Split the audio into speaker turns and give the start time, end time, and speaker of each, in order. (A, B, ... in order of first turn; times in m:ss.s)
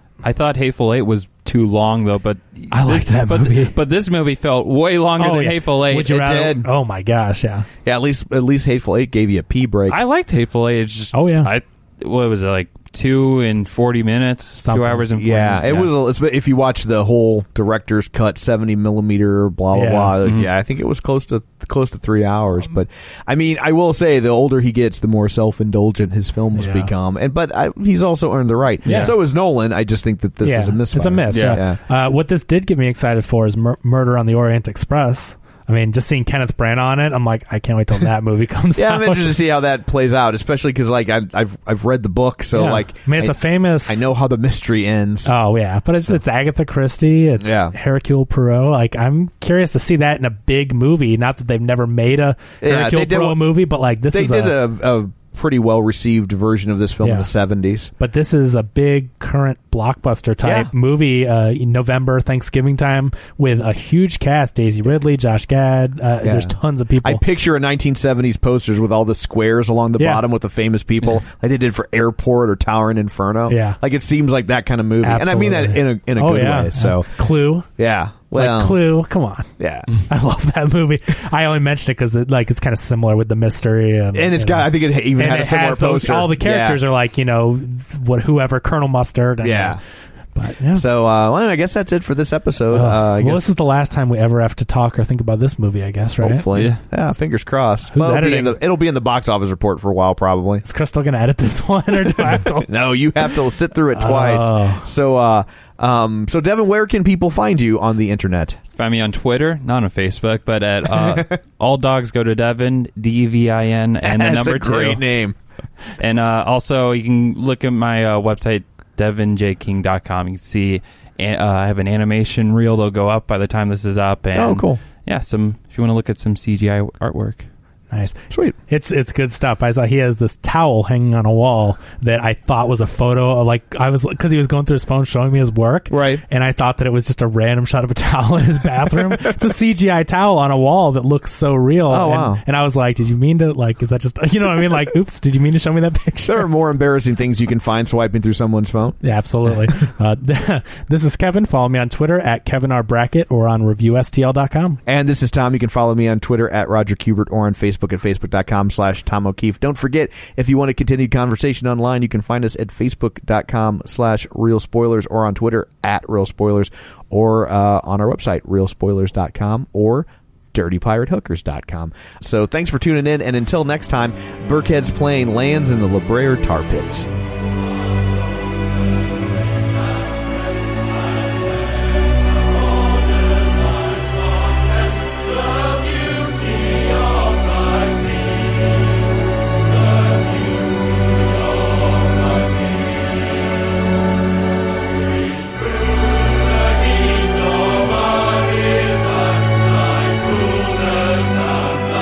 0:00.2-0:06.2 A
0:02.7-0:03.8 B
0:05.2-0:07.7 B
0:05.9-0:06.7 C
0:07.8-0:10.0 C
0:09.9-0:15.9 A
0:11.1-0:11.5 B
0:14.6-0:15.1 B
0:15.2-0:31.8 C
0:19.7-0:20.2 B
0:20.2-0:20.5 A
0:26.6-0:26.9 B
0:28.9-0:29.1 B
0:30.4-0:39.4 B
0:31.3-0:31.6 A
0:38.8-0:45.3 C
0:42.5-0:44.1 B
0:45.3-0:54.6 B
0:47.4-0:47.8 C
0:52.6-0:53.5 C
0:54.1-0:57.9 C
0:57.0-0:57.3 B
0:58.0-1:07.2 B
1:00.4-1:00.7 C
1:06.2-1:18.8 C
1:10.0-1:10.2 B
1:13.5-1:13.8 B
1:15.0-1:17.7 B
1:18.3-1:19.5 B
1:19.6-1:19.9 C
1:20.1-1:29.8 B
1:24.1-1:26.8 C
1:29.4-1:29.8 C
1:30.4-1:30.8 B
1:30.7-1:33.5 C
1:32.7-1:36.5 B
1:36.2-1:40.6 C
1:36.5-1:36.8 A
1:37.9-1:38.6 B
1:40.6-1:42.7 B
1:42.6-1:48.6 C
1:44.0-1:44.9 B
1:48.8-1:55.0 A
1:50.9-1:51.2 C
1:54.0-1:55.4 C
1:56.0-2:07.5 A
2:04.4-2:04.8 C
2:07.9-2:26.5 B
2:08.3-2:08.6 C
2:15.9-2:16.2 C
2:21.9-2:22.4 C
2:26.2-2:29.0 C
2:29.0-2:34.8 B
2:34.9-2:57.1 C
3:20.5-3:21.1 A